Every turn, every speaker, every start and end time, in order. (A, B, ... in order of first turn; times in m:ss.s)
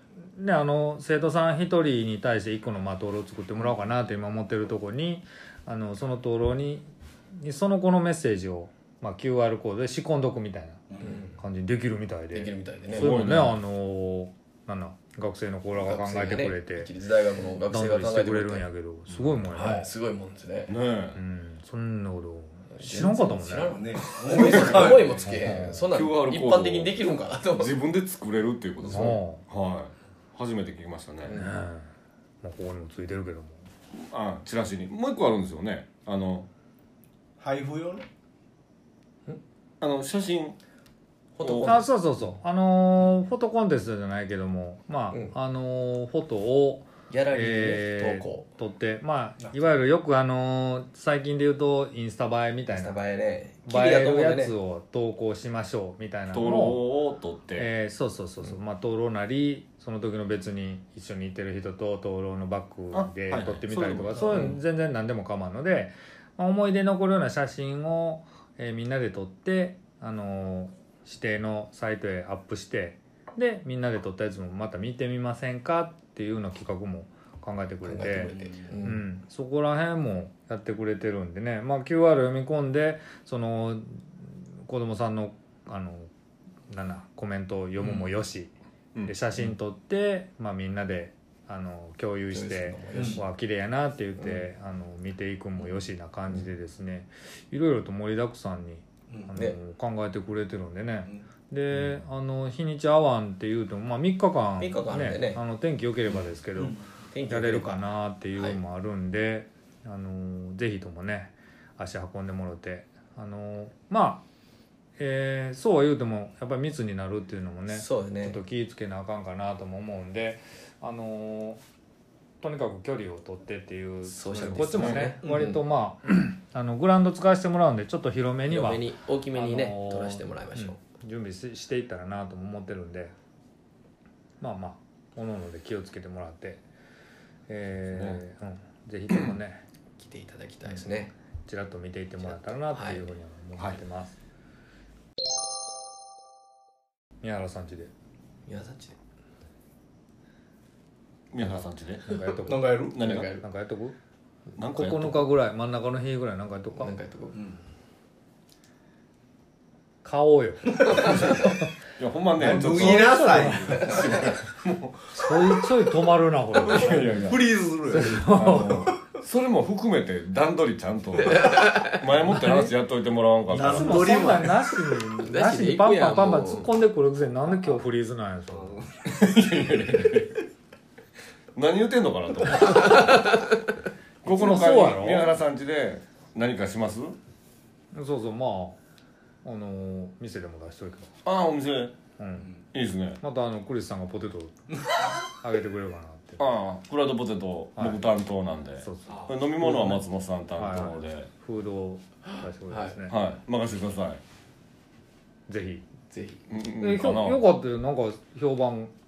0:00.3-0:10.8 A
0:11.0-0:11.3 B
0:11.4-0:16.9 A
0:12.3-0:13.2 B
0:12.9-0:13.6 C
0:15.8-0:18.7 B
0:17.7-0:19.9 A
0:19.5-0:20.7 B
0:20.7-0:21.2 C
0:21.2-0:23.8 A
0:22.8-0:27.8 B
0:23.6-0:25.2 D
0:24.5-0:24.9 C
0:25.2-0:25.9 A
0:25.9-0:27.0 C
0:27.5-0:31.4 C
0:28.8-0:29.4 A
0:31.3-0:31.9 A
0:32.4-0:33.6 A
0:33.9-0:36.5 C
0:37.4-0:38.0 D
0:39.8-0:40.6 C
0:41.4-0:41.9 B
0:41.4-0:41.8 C
0:41.6-0:53.0 A
0:47.1-0:48.4 B
0:52.7-0:54.6 B
0:53.7-0:56.9 A
0:56.3-0:57.7 C
0:57.6-1:26.1 A
1:02.9-1:04.6 C
1:17.8-1:19.0 B
1:18.3-1:18.7 D
1:26.7-1:28.5 A
1:29.1-1:54.2 A
1:32.3-1:33.2 B
1:32.9-1:33.2 D
1:44.6-1:45.4 B
1:47.1-1:47.8 B
1:55.0-2:01.6 A
1:57.7-1:58.4 B
2:02.4-2:13.1 A
2:04.1-2:05.6 B
2:04.7-2:05.1 C
2:08.5-2:10.8 B
2:14.4-2:16.6 A
2:17.5-2:19.6 A
2:17.9-2:18.2 C
2:20.0-2:21.1 B
2:21.5-2:24.2 A
2:22.2-2:23.1 B
2:27.2-2:27.9 A
2:28.5-2:29.0 B
2:31.3-2:32.1 C
2:32.1-2:34.0 A
2:32.5-2:33.0 D
2:32.9-2:33.4 C
2:33.0-2:33.4 B
2:34.6-2:35.3 C
2:34.7-2:36.9 A
2:36.8-2:37.4 B
2:40.0-2:41.5 A
2:40.9-2:45.2 C
2:42.4-2:44.2 D
2:42.5-2:44.0 A
2:45.1-2:47.2 A
2:46.6-2:47.4 C
2:47.1-2:48.3 D
2:47.9-2:48.9 A
2:48.3-2:54.3 C
2:51.2-2:52.0 B
2:52.3-2:52.7 A
2:53.5-2:54.6 D
2:53.6-2:58.8 A
2:55.2-2:56.7 B
2:58.5-2:58.9 D
2:59.1-3:00.4 C
3:01.6-3:03.2 C
3:02.7-3:03.6 B
3:04.2-3:07.2 C
3:04.2-3:05.3 A
3:07.9-3:08.8 A
3:09.4-3:11.1 A
3:11.2-3:12.0 C
3:12.2-3:12.5 A
3:12.7-3:13.2 C
3:13.2-3:14.5 A
3:15.4-3:16.4 A
3:16.4-3:21.3 C
3:18.8-3:20.0 A
3:20.6-3:23.2 A
3:22.3-3:23.0 B
3:23.1-3:24.2 C
3:25.5-3:25.8 A
3:26.1-3:26.4 B
3:26.5-3:27.4 C
3:26.8-3:28.9 A